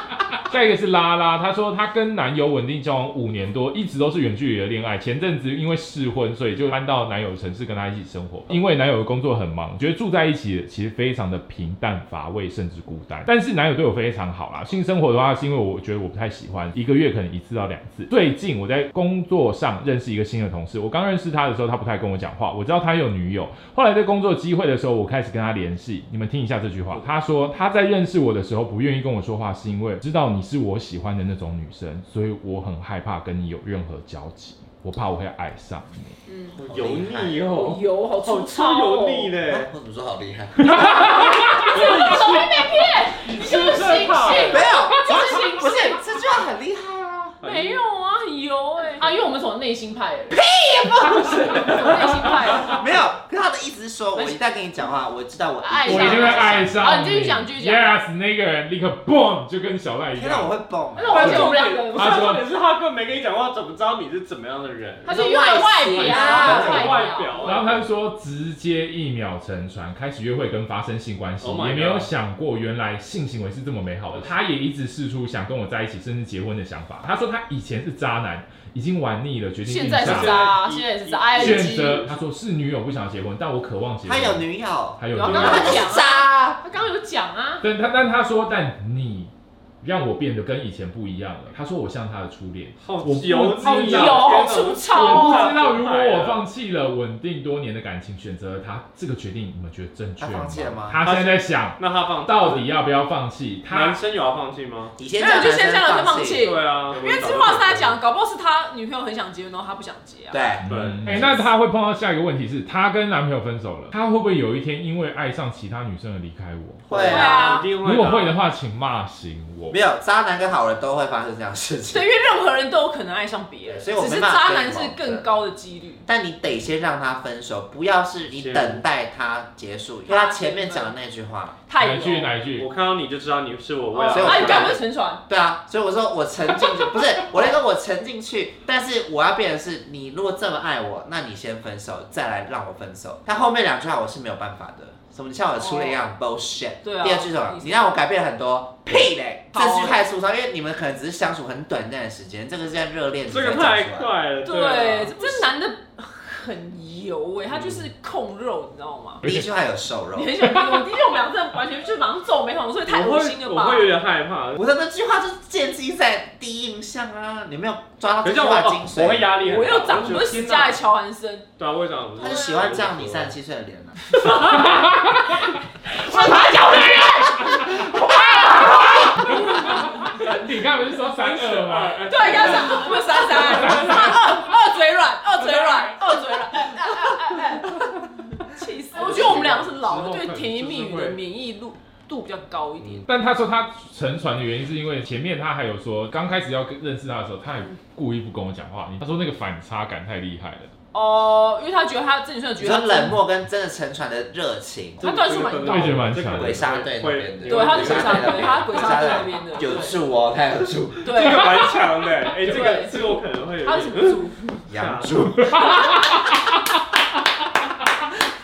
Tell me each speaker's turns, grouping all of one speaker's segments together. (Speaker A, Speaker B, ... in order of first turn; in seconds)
Speaker A: 0.5-36.2, 40.6-41.7, 55.9-60.5, 61.1-62.5, 65.9-80.6, 81.4-84.5, 85.0-85.9, 87.6-104.0, 110.6-116.9, 117.8-119.8, 131.8-132.7, 174.7-175.4, 176.5-177.1, 178.7-182.4, 183.7-184.3, 193.1-200.7, 205.6-206.7, 215.4-216.3
Speaker B: 26.9-27.1, 36.7-39.7, 41.6-42.7, 43.2-44.7, 47.4-47.8, 61.1-65.2, 65.9-67.9, 71.4-72.1, 79.9-82.2, 85.2-85.8, 92.8-96.5, 101.0-102.7, 103.7-105.0, 106.4-108.0, 110.6-111.5, 116.9-118.4, 128.3-128.8, 132.6-134.8, 153.3-155.5, 162.8-164.6, 168.2-170.8, 171.6-173.4, 180.0-184.1, 188.9-191.2, 205.0-209.2, 211.2-215.3
Speaker C: 36.3-36.6, 37.5-39.3, 40.9-46.0, 47.4-50.4, 51.1-52.8, 54.1-54.5, 55.6-58.0, 61.0-62.3, 65.0-67.6, 79.6-82.0, 85.2-87.6, 93.6-95.5, 105.1-110.5, 117.0-117.7, 121.9-126.0, 130.1-131.0, 131.7-132.4, 133.9-135.2, 145.6-146.0, 146.8-147.8, 149.5-150.0, 154.4-159.3, 160.2-163.9, 169.4-171.5, 172.2-172.7, 174.2-174.7, 175.9-179.9, 182.1-193.1, 200.9-203.2, 205.0-206.1, 207.4-210.0, 211.0-211.8, 212.4-214.7
Speaker D: 36.5-37.5, 39.4-41.2, 44.5-47.4, 50.3-51.9, 52.5-56.8, 60.1-61.4, 65.1-66.8, 84.0-86.6, 100.2-101.0, 105.0-106.5, 110.3-110.7, 116.9-117.6, 119.7-122.1, 123.7-125.3, 126.0-131.6, 134.1-154.1, 159.2-160.4, 164.6-169.4, 172.2-174.0, 202.6-205.1, 206.2-211.2, 214.7-215.6